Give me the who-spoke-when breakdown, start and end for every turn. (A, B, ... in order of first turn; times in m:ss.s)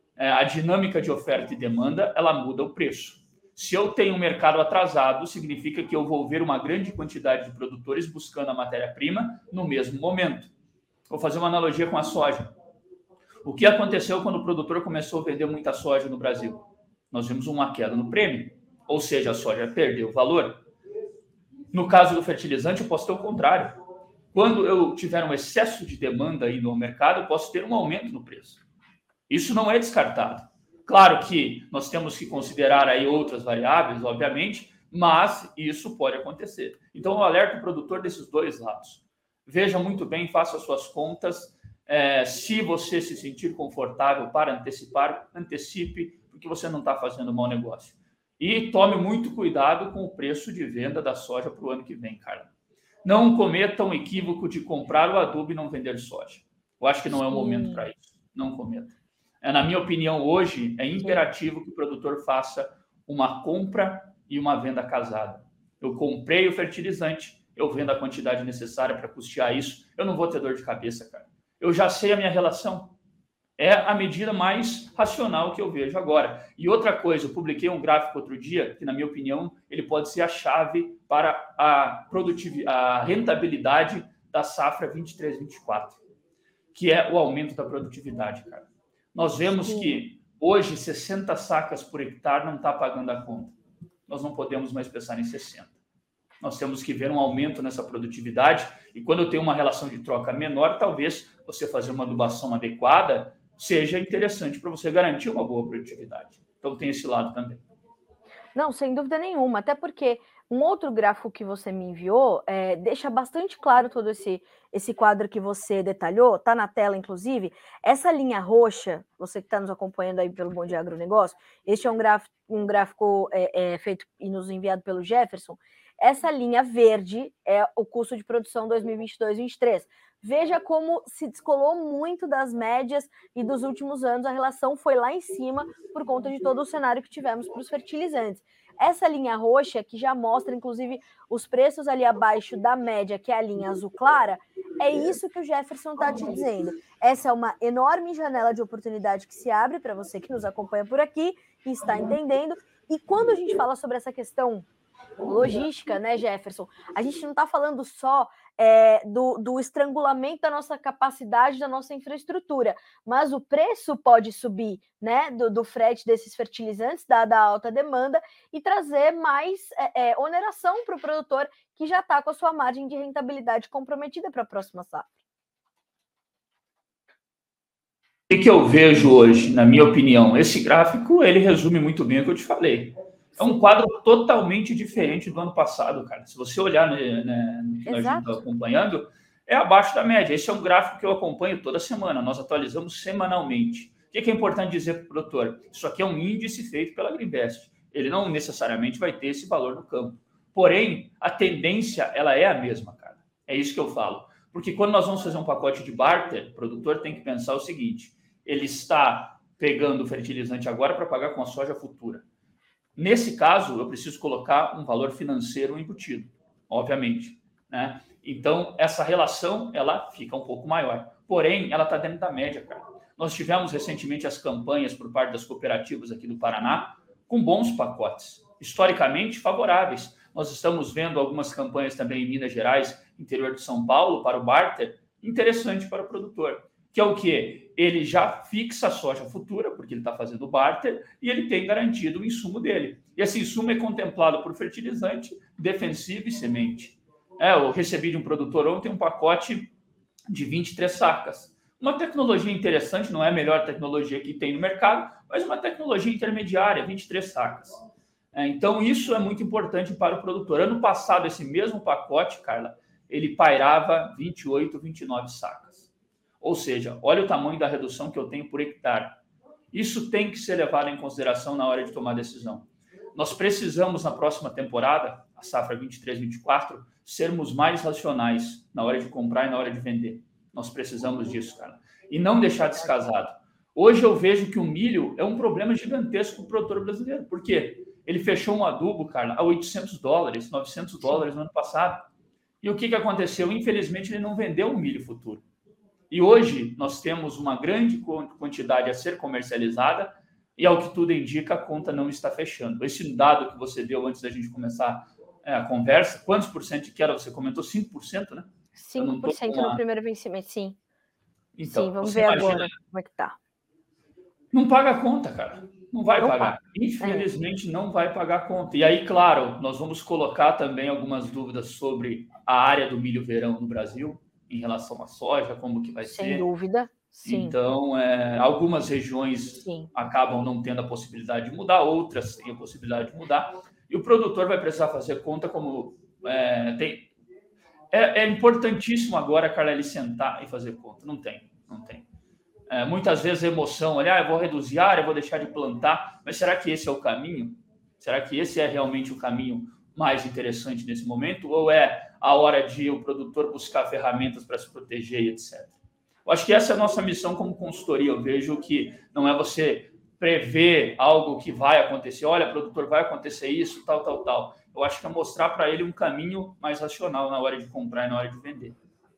0:00.2-0:10.5 A
0:11.1-0:12.5 A
0:13.4-0:20.6 A
0:21.7-0:23.8 A
0:24.3-0:28.6 A
0:29.3-0:52.5 A
0:53.0-1:12.9 A
0:57.2-0:57.8 B
1:13.6-1:26.0 A
1:26.7-1:33.6 A
1:29.6-1:30.0 B
1:34.1-1:35.7 A
1:36.4-1:47.6 A
1:48.6-2:34.7 B
2:35.3-2:55.1 B
2:58.3-3:32.2 A
3:03.4-3:03.6 B
3:07.8-3:08.4 B
3:33.0-4:09.7 A
4:10.3-4:17.8 A
4:18.3-4:25.8 A
4:26.4-4:29.2 A
4:29.7-4:52.1 A
4:52.6-4:55.4 A
4:56.1-5:09.8 A
5:08.8-5:10.8 B
5:11.5-5:12.7 A
5:11.6-5:13.4 B
5:14.5-5:26.5 A
5:16.2-5:17.3 B
5:26.0-5:27.6 B
5:27.2-5:37.1 A
5:29.6-5:29.9 B
5:37.9-5:42.0 A
5:42.7-5:55.7 A
5:56.2-6:08.8 A